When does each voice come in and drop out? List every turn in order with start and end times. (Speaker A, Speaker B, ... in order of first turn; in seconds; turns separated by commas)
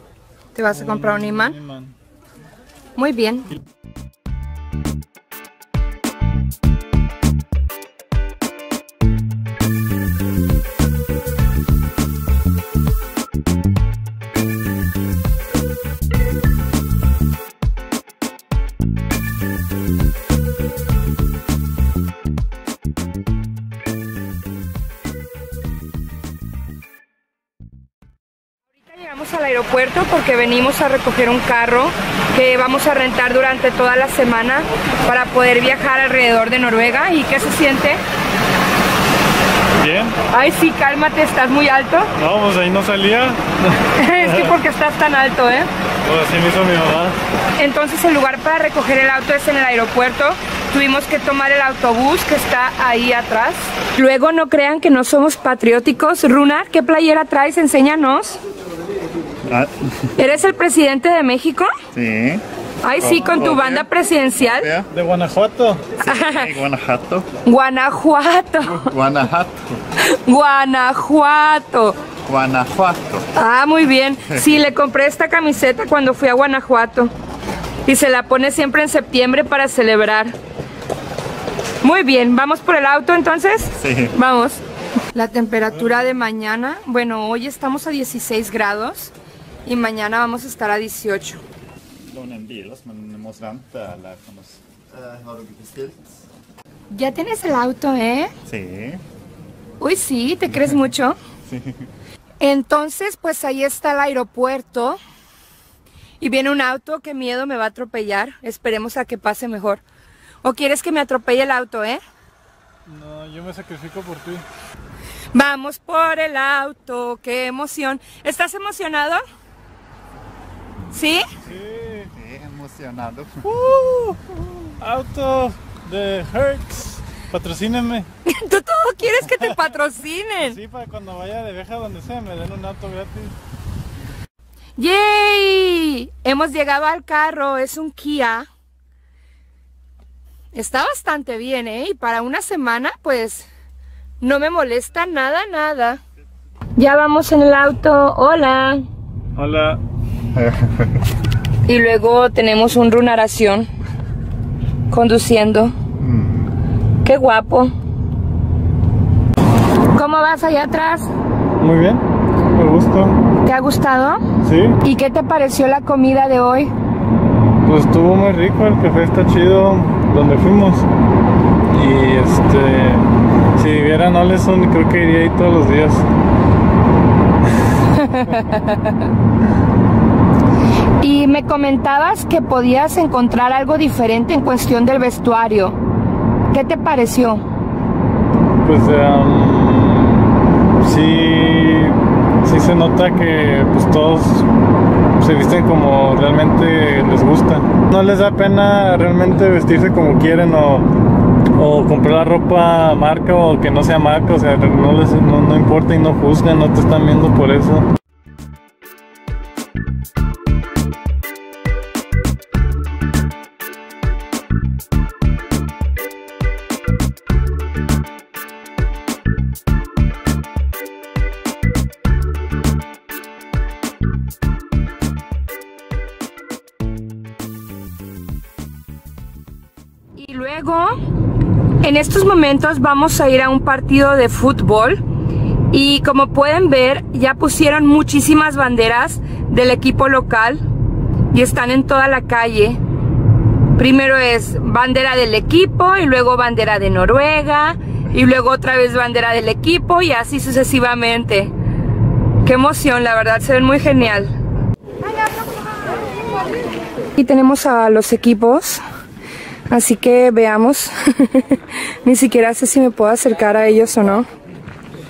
Speaker A: 0.5-1.6, Speaker B: 0.7-1.9, Speaker A: 2.9-3.5, Speaker A: 28.8-38.0, Speaker B: 39.8-40.2, Speaker A: 40.3-42.1, Speaker B: 42.1-44.5, Speaker A: 43.9-45.7, Speaker B: 46.0-47.2, Speaker A: 47.5-58.4, Speaker C: 59.5-59.7, Speaker A: 60.1-61.7, Speaker C: 61.9-62.4, Speaker A: 62.8-64.7, Speaker C: 63.0-63.9, Speaker C: 64.5-64.9, Speaker B: 64.9-65.9, Speaker A: 66.0-66.5, Speaker C: 66.0-67.3, Speaker A: 67.4-68.9, Speaker C: 68.6-69.6, Speaker A: 70.0-72.0, Speaker C: 72.2-73.3, Speaker A: 73.3-77.1, Speaker A: 77.8-80.3, Speaker A: 81.8-84.6, Speaker C: 83.8-84.1, Speaker A: 85.1-89.1, Speaker A: 89.7-91.4, Speaker C: 92.1-96.2, Speaker A: 96.9-98.3, Speaker C: 98.5-99.0, Speaker A: 99.8-101.2, Speaker C: 101.5-101.8, Speaker A: 102.4-105.0, Speaker A: 106.2-109.8, Speaker A: 110.4-112.0, Speaker B: 112.8-114.4, Speaker A: 115.3-119.2, Speaker A: 120.9-121.3, Speaker B: 121.4-122.1, Speaker C: 122.1-123.5, Speaker B: 123.4-124.2, Speaker B: 124.8-128.1, Speaker A: 128.2-130.6, Speaker B: 130.4-133.3, Speaker A: 134.8-138.5, Speaker A: 140.5-143.5, Speaker A: 144.2-146.0, Speaker A: 146.8-148.8, Speaker B: 149.3-149.8, Speaker A: 151.7-153.7, Speaker A: 154.9-155.7, Speaker C: 156.0-156.5, Speaker A: 157.0-157.7, Speaker A: 159.9-161.1, Speaker B: 161.6-163.2, Speaker A: 163.4-164.2, Speaker B: 164.4-164.8, Speaker A: 164.8-166.7, Speaker B: 167.6-170.9, Speaker B: 171.7-176.1, Speaker A: 177.9-178.9, Speaker A: 181.0-185.8, Speaker A: 186.5-187.4, Speaker B: 188.6-194.5, Speaker B: 195.2-201.0, Speaker B: 201.5-207.9, Speaker A: 230.2-230.9, Speaker A: 231.8-235.0, Speaker A: 235.7-240.6, Speaker A: 241.3-242.8, Speaker A: 243.7-251.5, Speaker A: 252.4-254.3, Speaker A: 257.1-258.8, Speaker A: 259.7-264.2